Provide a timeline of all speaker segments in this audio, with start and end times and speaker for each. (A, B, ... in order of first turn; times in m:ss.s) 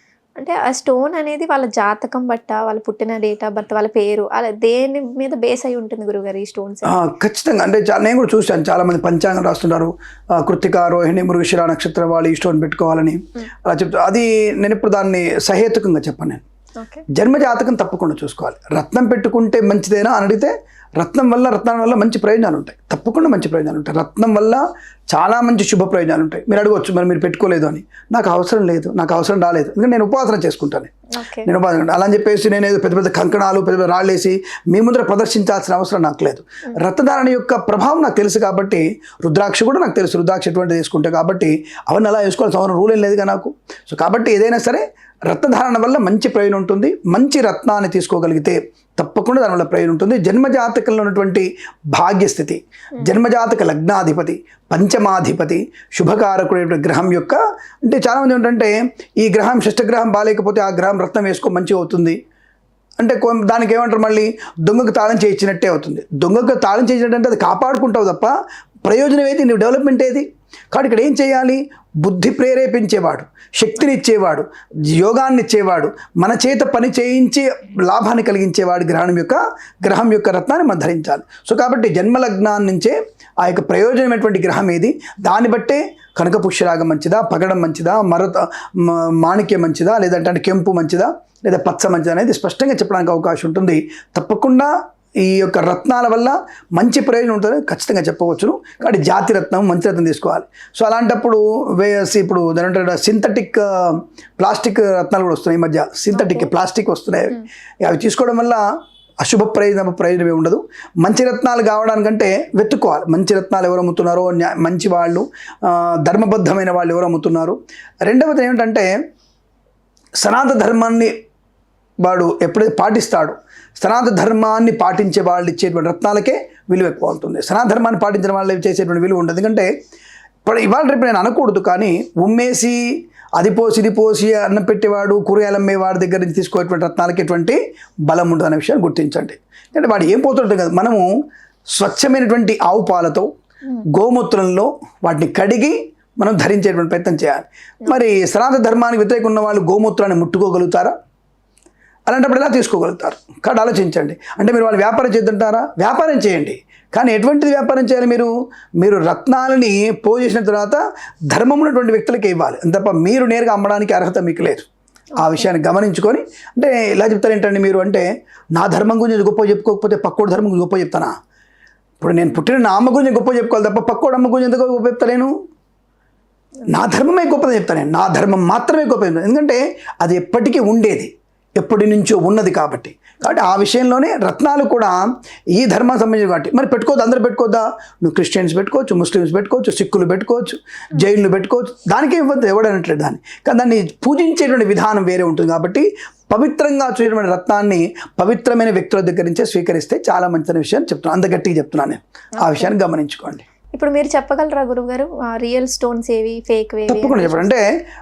0:00.4-0:07.0 A
0:06.8-0:16.4 B
0:16.8-0:17.0 A
0:17.1-0:30.9 B
0:31.2-0:31.5 A
0:31.4-1:02.2 B
1:03.0-1:08.3 B
1:08.8-1:48.6 B
1:46.1-1:46.5 A
1:49.2-1:58.9 B
2:00.2-2:01.1 B
2:02.0-2:09.7 B
2:10.4-2:12.8 B
2:13.4-2:21.1 B
2:21.7-2:23.3 B
2:23.9-2:30.9 B
2:32.1-2:44.7 B
2:45.2-2:51.1 B
2:45.2-2:45.5 A
2:52.0-2:55.3 B
2:56.7-3:23.4 B
3:22.4-3:22.7 A
3:23.7-3:27.5 A
3:26.9-3:27.7 B